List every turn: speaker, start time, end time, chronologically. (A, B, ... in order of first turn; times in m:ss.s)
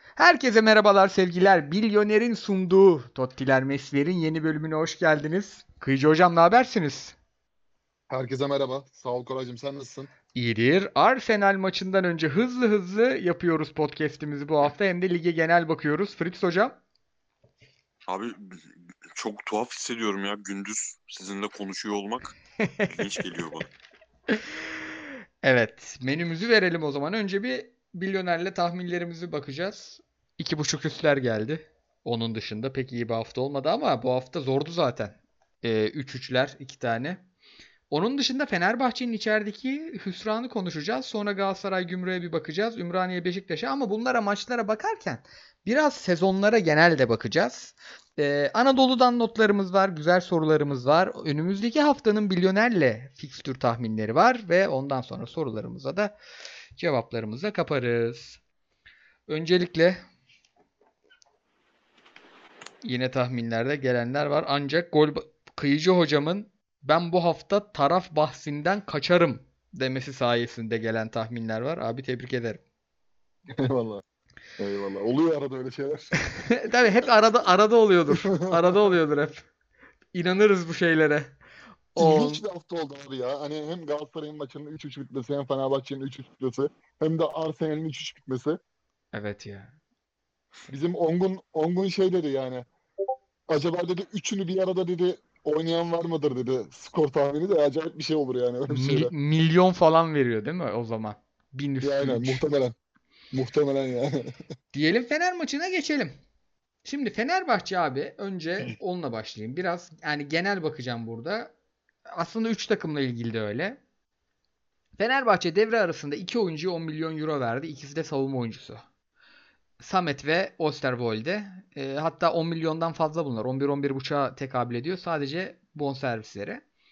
0:00.2-0:07.2 A
0:08.1-0:10.1 B
0:10.3-0:16.8 A
0:18.1-0:22.3 C
0:22.6-0:23.2 A
0:22.9-0:23.7 C
0:25.4-0:37.2 A
0:37.9-0:56.1 A
0:56.8-0:58.4 A
0:59.3-1:00.0 A
1:02.8-1:12.6 A
1:13.5-1:14.0 B
1:14.6-1:16.1 B
1:16.3-1:19.5 A
1:18.1-1:18.6 B
1:20.1-1:21.4 A
1:21.9-1:22.4 A
1:22.0-1:28.6 B
1:29.1-1:29.7 A
1:30.7-1:32.6 B
1:33.5-1:39.1 B
1:38.7-1:42.4 A
1:41.8-1:42.7 B
1:43.3-1:44.4 B
1:44.7-1:46.1 A
1:46.8-1:51.5 A
1:52.1-1:53.8 A
1:55.0-1:58.8 A
1:59.8-2:06.6 A